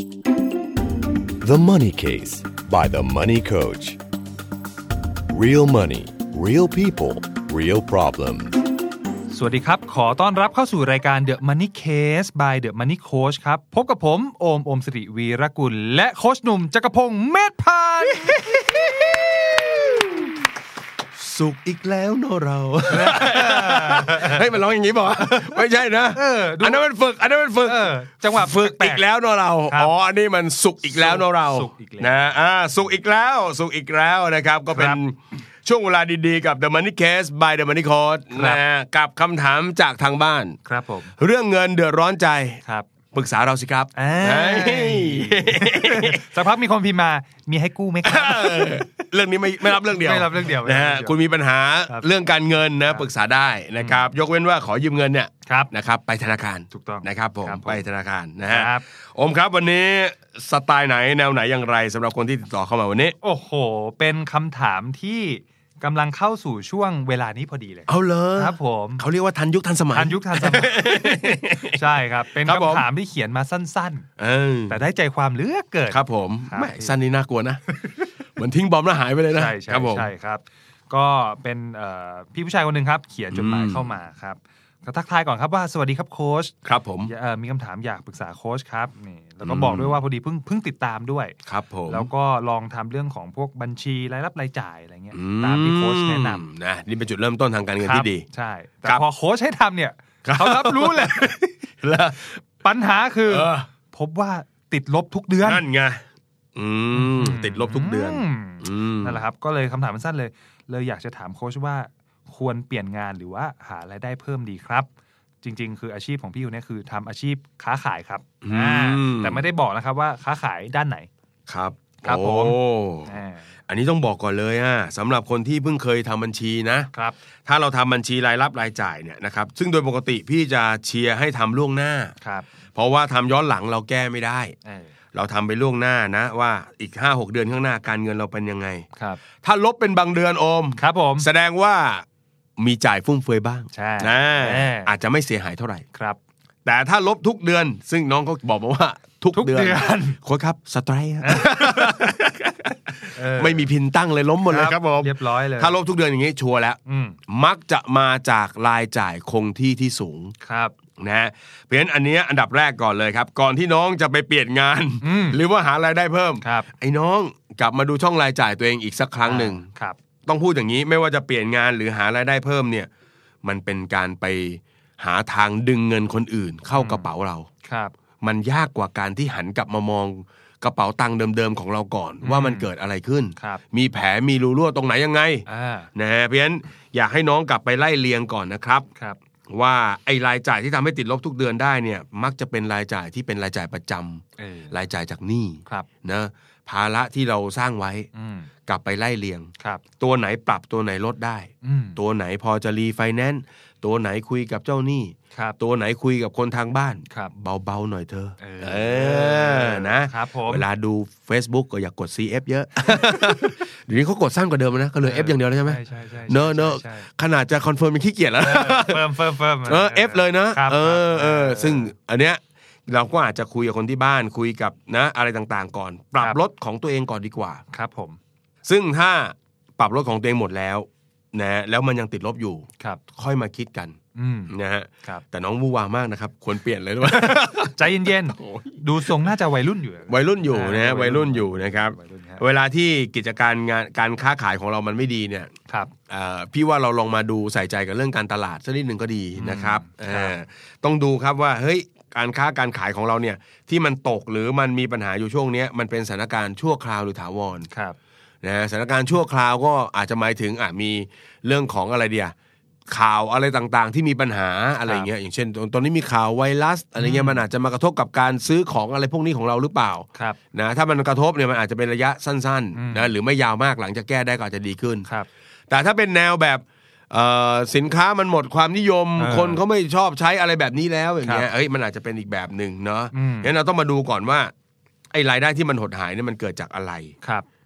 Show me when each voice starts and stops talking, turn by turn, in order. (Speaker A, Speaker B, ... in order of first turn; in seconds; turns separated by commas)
Speaker A: 1.4-4.0, Speaker A: 5.3-8.6, Speaker B: 9.3-18.8, Speaker C: 18.1-20.2, Speaker C: 21.1-40.6, Speaker B: 22.9-24.4, Speaker B: 26.1-26.8, Speaker B: 27.6-29.1, Speaker B: 29.7-29.9, Speaker B: 30.9-32.4, Speaker B: 34.7-35.0, Speaker B: 38.3-38.6, Speaker B: 40.6-41.1, Speaker C: 41.2-42.6, Speaker B: 42.6-42.9, Speaker C: 43.1-46.3, Speaker B: 44.0-48.9, Speaker C: 48.0-63.2, Speaker B: 49.6-51.1, Speaker B: 53.8-54.1, Speaker B: 55.5-55.7, Speaker B: 56.7-57.9, Speaker B: 58.5-58.9, Speaker B: 63.2-69.0, Speaker C: 67.9-71.8, Speaker B: 69.9-74.1, Speaker C: 72.4-72.9, Speaker C: 74.2-74.8, Speaker B: 74.7-76.9, Speaker C: 75.9-77.6, Speaker C: 78.4-80.1, Speaker B: 79.3-91.3, Speaker C: 83.3-84.0, Speaker C: 86.7-87.1, Speaker C: 89.4-90.0, Speaker C: 91.5-92.1, Speaker B: 91.9-96.5, Speaker C: 95.1-98.3, Speaker B: 97.8-101.6, Speaker C: 100.2-102.3, Speaker B: 102.6-105.6, Speaker C: 103.2-103.7, Speaker C: 105.4-106.0, Speaker C: 106.6-109.2, Speaker B: 106.9-114.9, Speaker B: 115.4-121.1, Speaker C: 118.4-119.5, Speaker C: 121.5-123.2, Speaker B: 122.0-123.5, Speaker C: 123.7-126.9, Speaker B: 126.9-127.2, Speaker C: 127.5-132.1, Speaker B: 132.2-132.5, Speaker C: 132.8-134.6, Speaker B: 134.7-134.9, Speaker C: 135.1-138.9, Speaker B: 139.0-139.2, Speaker C: 139.4-142.1, Speaker B: 140.8-141.3, Speaker C: 142.6-145.8, Speaker B: 143.7-144.9, Speaker B: 145.9-146.2, Speaker C: 146.7-160.3, Speaker B: 149.3-150.2, Speaker B: 151.2-152.1, Speaker B: 152.9-153.7, Speaker B: 154.5-155.8, Speaker B: 156.9-157.2, Speaker B: 160.4-160.7, Speaker C: 161.0-169.7, Speaker B: 165.0-165.4, Speaker B: 166.4-166.7, Speaker B: 169.2-170.0, Speaker C: 170.3-172.9, Speaker C: 173.4-177.5, Speaker B: 176.7-177.1, Speaker B: 177.6-177.9, Speaker C: 178.2-188.9, Speaker B: 182.2-182.7, Speaker B: 183.4-183.6, Speaker B: 185.5-185.9, Speaker C: 189.5-198.1, Speaker B: 194.4-194.8, Speaker B: 198.1-198.5, Speaker C: 198.7-219.1, Speaker B: 199.6-199.8, Speaker B: 201.6-202.0, Speaker B: 205.3-205.6, Speaker B: 208.4-210.6, Speaker B: 215.0-217.1, Speaker B: 218.4-221.9, Speaker C: 219.7-227.6, Speaker B: 227.7-228.2, Speaker C: 228.7-234.0, Speaker B: 234.2-235.2, Speaker C: 234.5-238.8, Speaker B: 237.0-242.4, Speaker C: 240.1-245.5, Speaker C: 246.1-257.7, Speaker B: 249.4-250.4, Speaker B: 257.7-258.0, Speaker C: 258.4-262.3, Speaker C: 262.9-275.1, Speaker B: 264.8-265.1, Speaker B: 267.0-267.4, Speaker B: 272.8-273.1, Speaker C: 275.7-284.5, Speaker B: 279.2-279.6, Speaker B: 283.1-283.5, Speaker C: 285.1-287.1